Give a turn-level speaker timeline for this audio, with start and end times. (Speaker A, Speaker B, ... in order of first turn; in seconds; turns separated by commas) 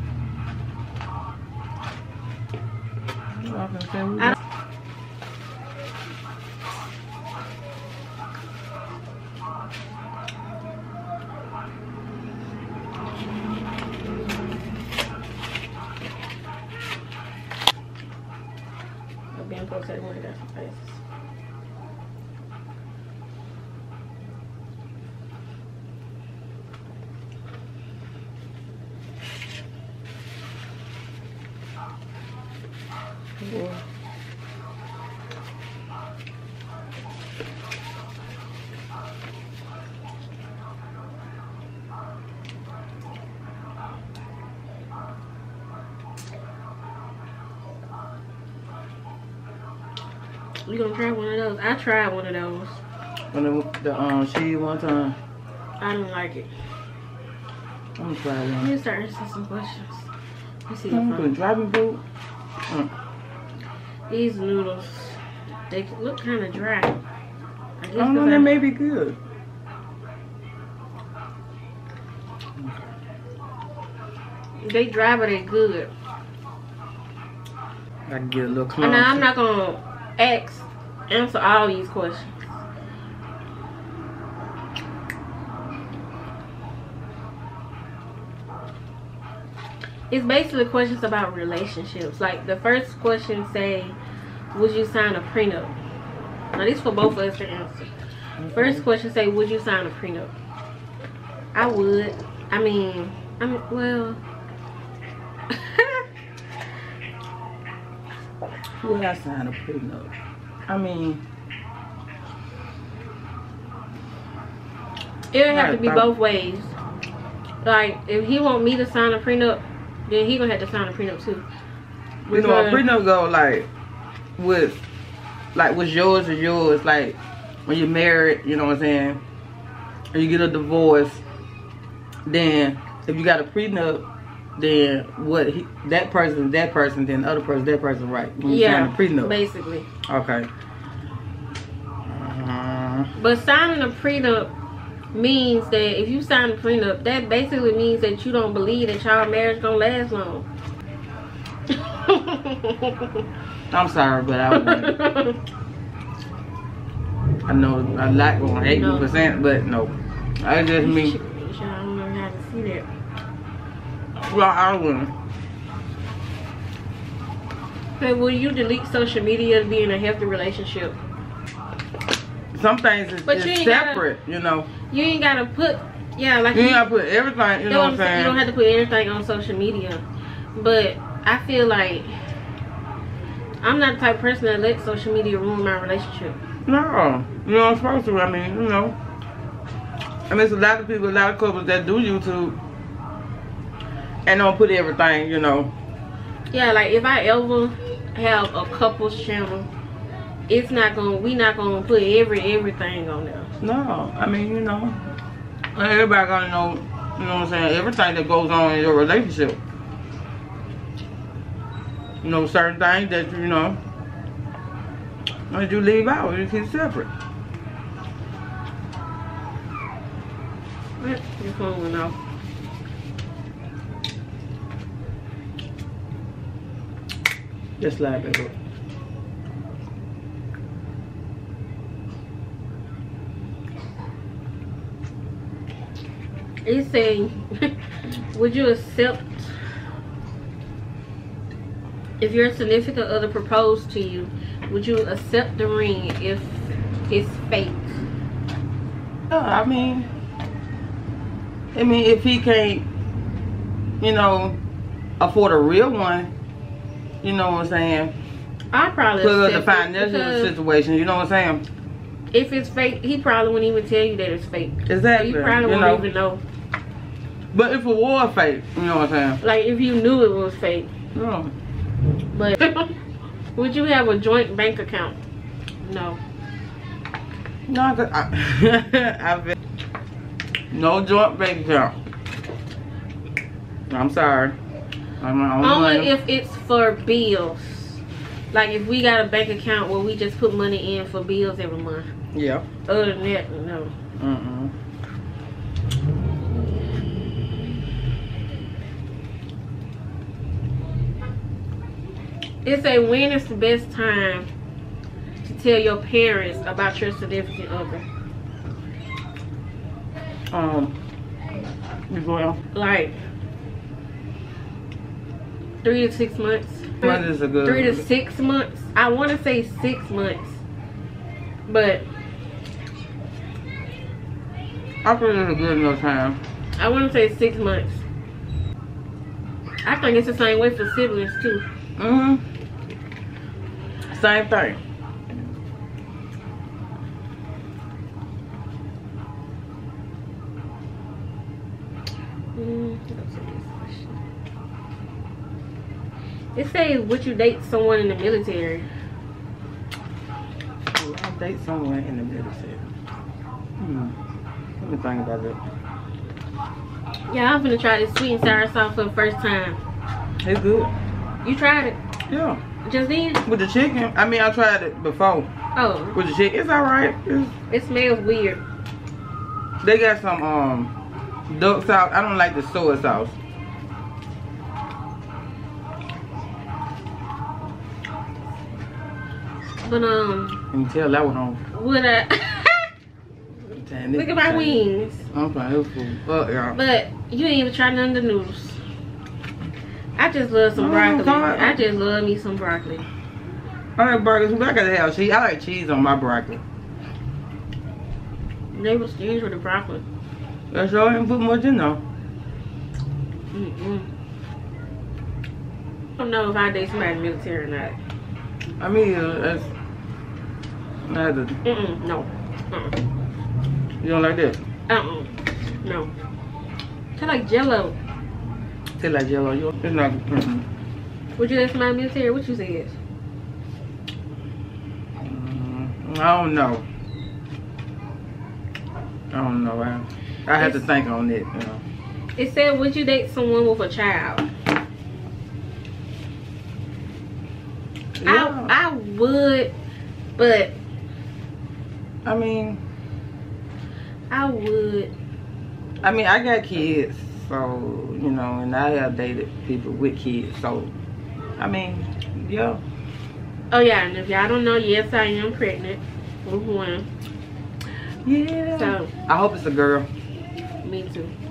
Speaker A: 3.3-4.4, Speaker B: 19.3-21.0, Speaker A: 33.4-33.8, Speaker B: 50.6-52.8, Speaker A: 53.3-55.2, Speaker B: 55.8-56.5, Speaker A: 58.0-58.7, Speaker B: 58.6-60.1, Speaker B: 60.7-61.3, Speaker A: 60.9-62.0, Speaker B: 64.1-67.0, Speaker B: 67.8-68.5, Speaker A: 68.0-69.2, Speaker A: 72.5-72.9, Speaker B: 74.6-75.9, Speaker A: 78.1-79.2, Speaker B: 78.8-82.5, Speaker B: 90.1-94.0, Speaker B: 94.5-95.8, Speaker B: 96.5-97.9, Speaker A: 98.4-98.8, Speaker B: 98.5-100.3, Speaker B: 101.5-104.2, Speaker B: 105.5-106.0, Speaker A: 108.8-110.1, Speaker A: 110.7-111.2, Speaker B: 115.3-116.8, Speaker A: 115.5-116.1, Speaker B: 117.6-121.4, Speaker A: 122.3-123.7, Speaker B: 122.3-122.8, Speaker A: 124.4-124.8, Speaker A: 125.5-129.2, Speaker A: 130.1-131.2, Speaker A: 132.2-139.3, Speaker B: 138.4-139.9, Speaker A: 140.1-140.5, Speaker A: 142.1-143.1, Speaker B: 143.2-144.5, Speaker B: 145.1-150.5, Speaker B: 151.7-153.2, Speaker A: 153.7-155.0, Speaker B: 154.5-155.4, Speaker A: 157.5-161.2, Speaker B: 158.7-159.1, Speaker B: 160.8-162.9, Speaker A: 164.2-165.1, Speaker B: 168.0-171.0, Speaker A: 172.5-174.7, Speaker B: 173.2-174.0, Speaker B: 174.9-176.8, Speaker A: 176.5-178.4, Speaker B: 177.7-180.0, Speaker B: 180.5-182.2, Speaker B: 183.6-186.4, Speaker A: 186.7-189.0, Speaker A: 190.3-192.6, Speaker A: 194.2-195.7, Speaker B: 196.5-199.7, Speaker B: 200.5-203.5, Speaker A: 203.6-205.0, Speaker A: 205.7-209.6, Speaker A: 212.2-213.8, Speaker A: 215.5-217.1, Speaker B: 221.0-222.2, Speaker A: 227.8-228.5, Speaker B: 236.6-237.7, Speaker B: 238.3-239.6, Speaker B: 242.2-248.0, Speaker A: 249.3-250.1, Speaker A: 251.7-252.9, Speaker A: 254.0-254.6, Speaker A: 255.2-256.3, Speaker A: 257.2-258.1, Speaker B: 258.7-260.5, Speaker A: 259.2-261.6, Speaker B: 262.3-266.4, Speaker A: 264.9-266.1, Speaker A: 267.5-269.4, Speaker B: 269.4-270.9, Speaker A: 271.1-271.5, Speaker B: 272.3-272.9, Speaker B: 273.6-275.2, Speaker B: 275.8-276.2, Speaker A: 277.7-279.5, Speaker A: 280.7-282.0, Speaker A: 283.9-284.6, Speaker A: 285.2-286.1, Speaker B: 285.6-292.1, Speaker A: 292.3-292.6, Speaker B: 292.9-293.9, Speaker A: 294.2-294.7, Speaker B: 302.6-304.5, Speaker B: 305.4-308.0, Speaker A: 310.5-311.0, Speaker A: 312.1-312.6, Speaker B: 312.7-313.2, Speaker B: 315.8-320.6, Speaker A: 317.0-318.1, Speaker B: 321.7-322.0, Speaker A: 325.0-326.4, Speaker B: 326.8-328.0, Speaker B: 329.8-331.6, Speaker A: 332.0-332.4, Speaker A: 334.1-334.8, Speaker B: 342.5-344.2, Speaker B: 346.5-348.9, Speaker A: 350.9-352.9, Speaker A: 353.8-354.2, Speaker A: 354.8-355.6, Speaker B: 357.3-359.8, Speaker A: 360.4-360.9, Speaker B: 361.4-362.0, Speaker A: 362.3-362.6, Speaker B: 362.8-363.4, Speaker A: 363.4-365.5, Speaker B: 365.7-366.2, Speaker A: 366.1-367.5, Speaker B: 367.7-368.6, Speaker A: 369.8-370.9, Speaker A: 371.5-373.4, Speaker B: 379.8-380.6, Speaker A: 380.7-381.6, Speaker B: 381.7-382.9, Speaker A: 383.8-386.8, Speaker B: 384.1-385.3, Speaker B: 386.7-388.8, Speaker B: 390.2-393.0, Speaker A: 390.8-391.8, Speaker A: 394.0-396.6, Speaker B: 398.7-400.0, Speaker A: 400.7-402.0, Speaker B: 403.5-404.1, Speaker B: 406.2-408.0, Speaker A: 408.8-409.7, Speaker A: 411.0-411.6, Speaker B: 411.6-413.0, Speaker A: 414.0-414.6, Speaker B: 414.9-416.1, Speaker B: 417.1-417.9, Speaker A: 419.0-420.7, Speaker B: 421.4-423.0, Speaker A: 425.2-426.9, Speaker A: 429.3-431.8, Speaker B: 430.6-430.8, Speaker B: 432.4-434.5, Speaker A: 438.2-438.7, Speaker B: 438.2-439.7, Speaker B: 440.4-440.8, Speaker A: 442.2-442.8, Speaker B: 444.3-445.1, Speaker A: 446.0-450.9, Speaker A: 451.6-452.8, Speaker B: 453.7-457.1, Speaker A: 458.2-460.1, Speaker B: 458.7-459.1, Speaker B: 460.8-461.3